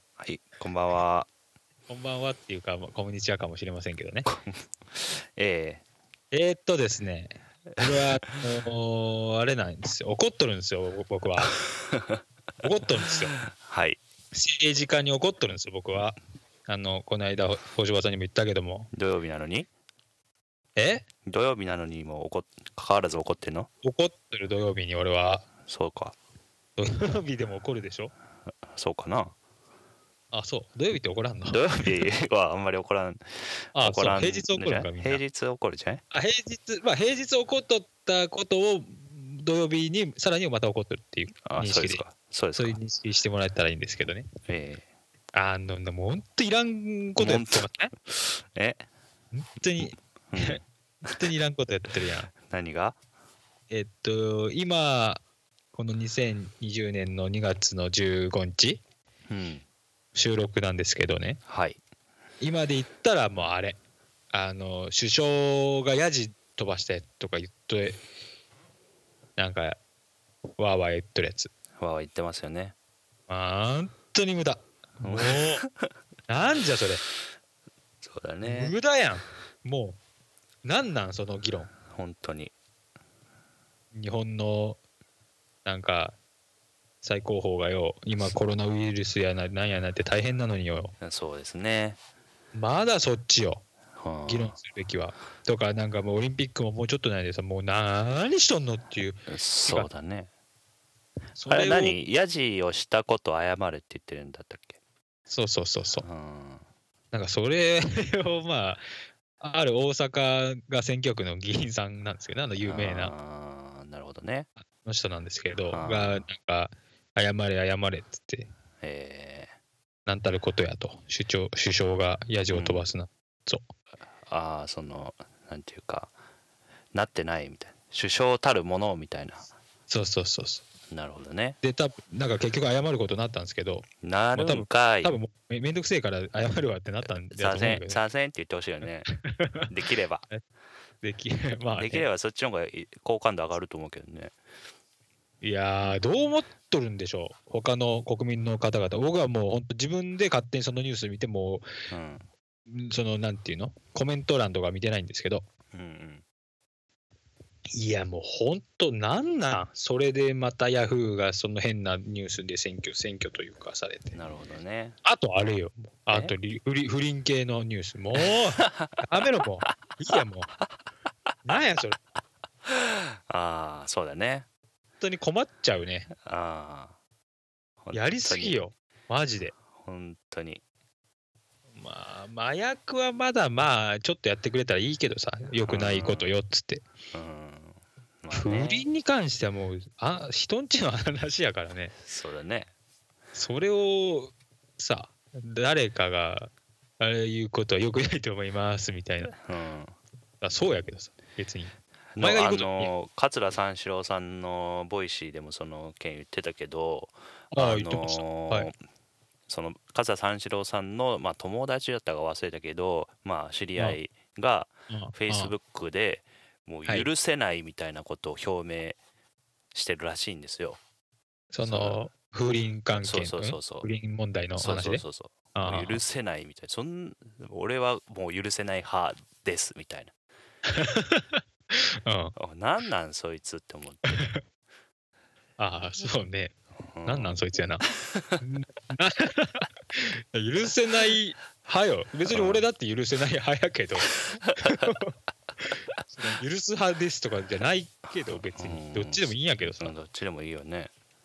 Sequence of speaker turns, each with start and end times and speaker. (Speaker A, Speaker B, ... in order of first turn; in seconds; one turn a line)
Speaker A: 0.2-1.3
Speaker B: 1.9-4.3
Speaker A: 4.3-5.8
Speaker B: 6.3-11.6
Speaker A: 7.8-8.4
Speaker A: 11.8-12.2
Speaker B: 12.6-13.3
Speaker A: 13.3-14.0
Speaker B: 14.3-18.9
Speaker A: 18.9-19.7
Speaker B: 20.8-21.1
Speaker A: 21.2-23.7
Speaker B: 23.8-25.5
Speaker A: 25.7-26.2
Speaker B: 26.8-28.1
Speaker A: 28.7-29.3
Speaker B: 30.3-32.0
Speaker A: 31.5-36.0
Speaker B: 33.8-35.2
Speaker B: 36.1-42.0
Speaker A: 41.5-42.8
Speaker B: 42.6-44.3
Speaker A: 44.5-44.9
Speaker B: 45.3-47.9
Speaker A: 47.2-48.8
Speaker B: 49.3-50.6
Speaker A: 50.3-51.2
Speaker B: 51.1-52.3
Speaker A: 52.3-53.0
Speaker B: 53.7-55.2
Speaker B: 55.7-58.8
Speaker A: 59.3-59.6
Speaker B: 60.1-61.4
Speaker A: 61.5-61.8
Speaker B: 62.4-63.8
Speaker B: 64.3-68.0
Speaker B: 69.4-69.8
Speaker B: 70.6-71.5
Speaker A: 71.8-72.8
Speaker B: 73.3-75.6
Speaker A: 75.0-75.9
Speaker B: 76.3-77.0
Speaker A: 78.0-78.8
Speaker B: 78.4-80.0
Speaker B: 80.6-81.7
Speaker A: 81.9-82.5
Speaker B: 83.9-84.8
Speaker B: 85.7-86.2
Speaker B: 87.0-90.9
Speaker A: 91.0-92.0
Speaker B: 92.5-93.6
Speaker A: 94.0-94.6
Speaker B: 94.3-99.9
Speaker A: 99.3-100.3
Speaker B: 101.4-102.0
Speaker A: 101.5-104.8
Speaker B: 105.3-106.1
Speaker A: 106.0-106.7
Speaker B: 107.1-108.8
Speaker B: 109.4-113.1
Speaker A: 112.6-114.5
Speaker B: 114.8-118.5
Speaker A: 115.7-116.3
Speaker A: 118.8-119.5
Speaker B: 120.1-123.7
Speaker A: 122.5-122.9
Speaker A: 124.3-126.1
Speaker A: 126.9-129.5
Speaker B: 129.9-130.6
Speaker A: 130.9-131.6
Speaker B: 131.6-138.0
Speaker A: 134.0-135.2
Speaker A: 137.3-139.1
Speaker B: 139.1-139.7
Speaker A: 139.7-140.3
Speaker B: 141.0-142.1
Speaker A: 141.8-144.3
Speaker B: 145.4-151.7
Speaker A: 151.9-152.3
Speaker B: 152.7-155.4
Speaker A: 155.7-156.2
Speaker B: 157.7-164.2
Speaker A: 164.1-165.0
Speaker B: 165.1-170.5
Speaker A: 168.2-169.0
Speaker B: 171.4-172.0
Speaker A: 172.7-174.5
Speaker B: 175.0-176.1
Speaker A: 176.2-176.9
Speaker A: 177.8-178.6
Speaker B: 177.9-179.5
Speaker A: 179.8-180.6
Speaker B: 181.7-186.8
Speaker A: 185.7-186.3
Speaker A: 187.1-188.8
Speaker B: 188.3-191.9
Speaker A: 192.0-192.7
Speaker B: 193.3-199.3
Speaker A: 199.4-200.0
Speaker B: 200.4-202.9
Speaker A: 202.2-208.8
Speaker B: 207.5-208.7
Speaker A: 209.5-219.0
Speaker B: 214.9-215.5
Speaker A: 219.7-220.8
Speaker B: 221.5-225.0
Speaker A: 221.6-222.0
Speaker A: 223.0-223.9
Speaker A: 224.6-230.1
Speaker B: 225.6-226.0
Speaker B: 230.7-232.3
Speaker A: 232.4-234.2
Speaker B: 234.1-234.4
Speaker B: 235.6-237.8
Speaker A: 236.9-237.4
Speaker A: 238.1-238.4
Speaker B: 238.4-245.1
Speaker A: 242.3-242.7
Speaker A: 244.4-244.9
Speaker B: 245.7-249.9
Speaker A: 248.5-250.9